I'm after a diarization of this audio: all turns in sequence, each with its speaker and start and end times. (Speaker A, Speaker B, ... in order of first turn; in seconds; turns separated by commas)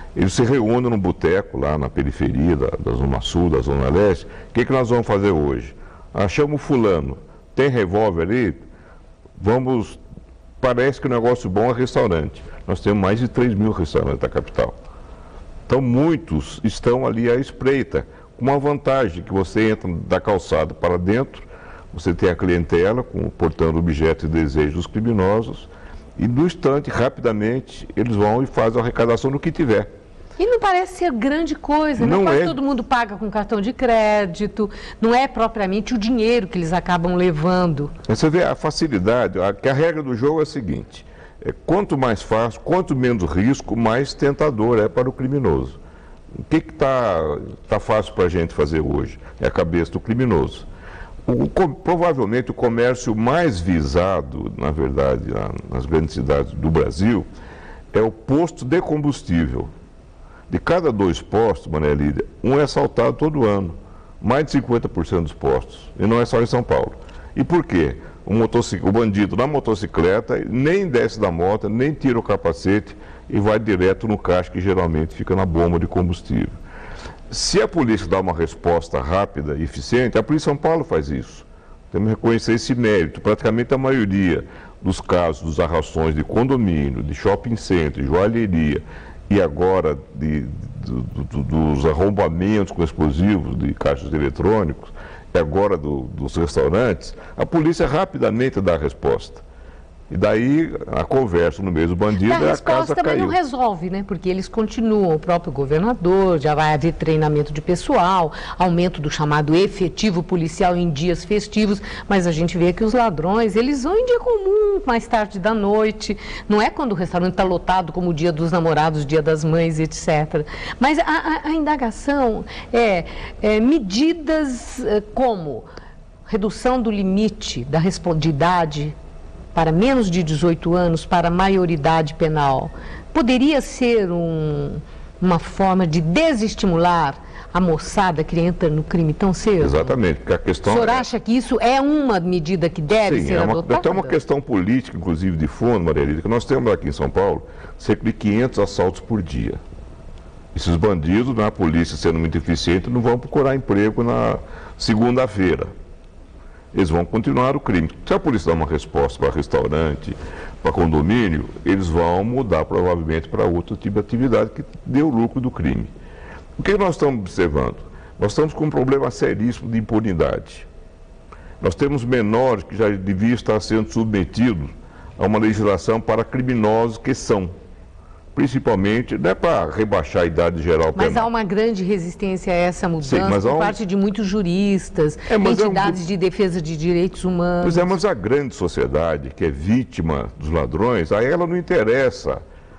Speaker A: 0.1-8.7, Speaker A: 9.4-10.0, Speaker A: 10.6-14.8, Speaker A: 15.7-29.9, Speaker B: 30.4-37.9, Speaker A: 32.0-32.6, Speaker A: 38.1-45.8, Speaker A: 46.5-50.7, Speaker A: 51.3-57.3, Speaker A: 57.9-59.7, Speaker A: 60.5-76.5, Speaker A: 77.3-99.4, Speaker A: 100.1-103.4, Speaker B: 102.2-125.7, Speaker B: 126.3-128.9, Speaker B: 129.5-140.0, Speaker A: 139.6-141.1, Speaker B: 140.6-144.2, Speaker A: 142.9-149.6, Speaker A: 150.5-155.7, Speaker A: 156.7-165.9, Speaker A: 166.6-170.7, Speaker A: 171.6-177.5, Speaker A: 178.3-181.3, Speaker B: 180.9-187.9, Speaker A: 183.0-183.8, Speaker A: 185.3-186.0, Speaker A: 187.6-192.4